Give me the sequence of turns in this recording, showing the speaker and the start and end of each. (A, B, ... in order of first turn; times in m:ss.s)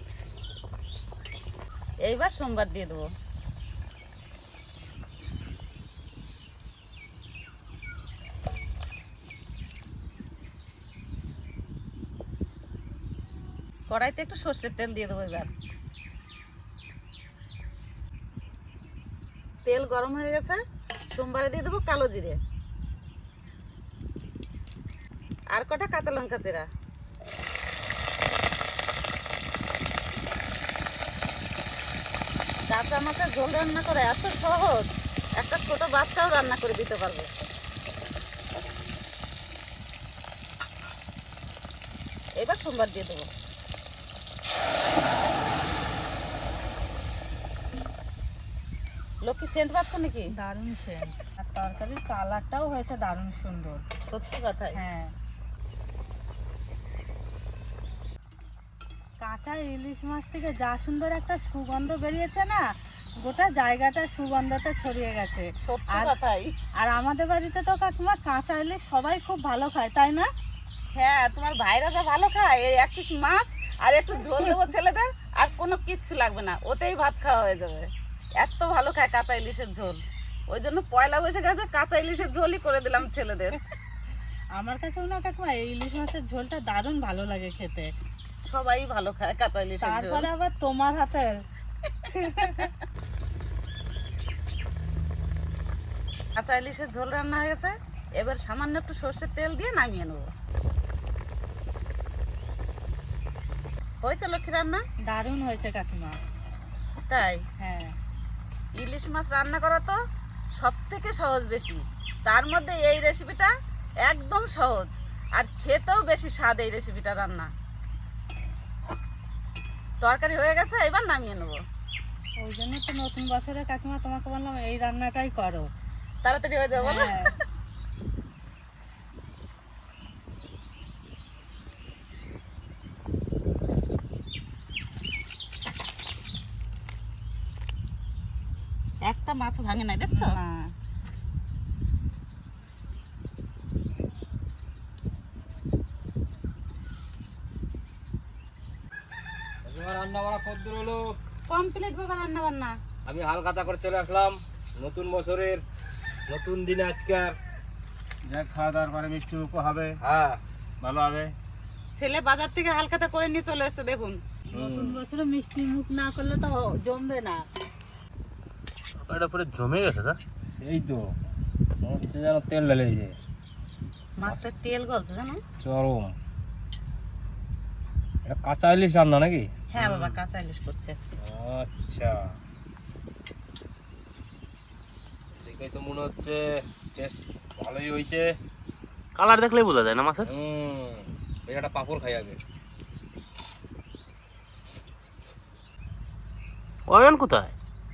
0:02.1-0:03.0 A
0:13.9-0:15.5 A
0:19.6-0:20.6 A
0:21.1-0:22.4 A
0:25.5-0:26.6 A
0:32.7-0:37.3 A
0:42.4-0:43.3 A
0:49.2-0:50.3 A
0:50.3-0:53.8 B
0:54.1-0:54.8 A
0:54.7-0:55.1 B
0:59.2-1:06.1 B
1:05.6-1:06.5 A
1:06.8-1:10.3 B
1:10.9-1:23.6 A
1:24.5-1:27.9 B
1:28.5-1:30.3 A
1:29.8-1:31.4 B
1:32.1-1:32.7 B
1:36.4-1:40.3 A
1:44.0-1:44.8 A
1:45.0-1:46.2 B
1:47.1-1:47.4 A
1:47.6-1:47.9 B
1:48.8-1:50.0 A
1:50.6-1:53.5 A
1:54.1-1:57.5 A
2:00.0-2:01.6 A
2:02.4-2:05.7 B
2:06.2-2:07.2 A
2:06.7-2:07.3 B
2:19.0-2:20.4 A
2:20.1-2:20.7 B
2:29.6-2:31.0 C
2:31.5-2:32.7 A
2:33.0-2:35.6 C
2:36.3-2:37.3 C
2:38.2-2:40.0 D
2:40.0-2:40.4 C
2:40.8-2:41.3 D
2:41.9-2:44.2 A
2:44.5-2:45.0 C
2:44.5-2:47.4 B
2:49.0-2:50.2 E
2:50.5-2:51.1 C
2:51.8-2:53.2 C
2:54.2-2:55.4 A
2:55.6-2:56.1 C
2:58.2-3:00.0 C
2:59.7-3:01.1 A
3:01.2-3:02.3 C
3:05.4-3:06.4 C
3:06.9-3:08.3 C
3:09.1-3:10.2 E
3:10.2-3:12.4 C
3:16.9-3:17.5 E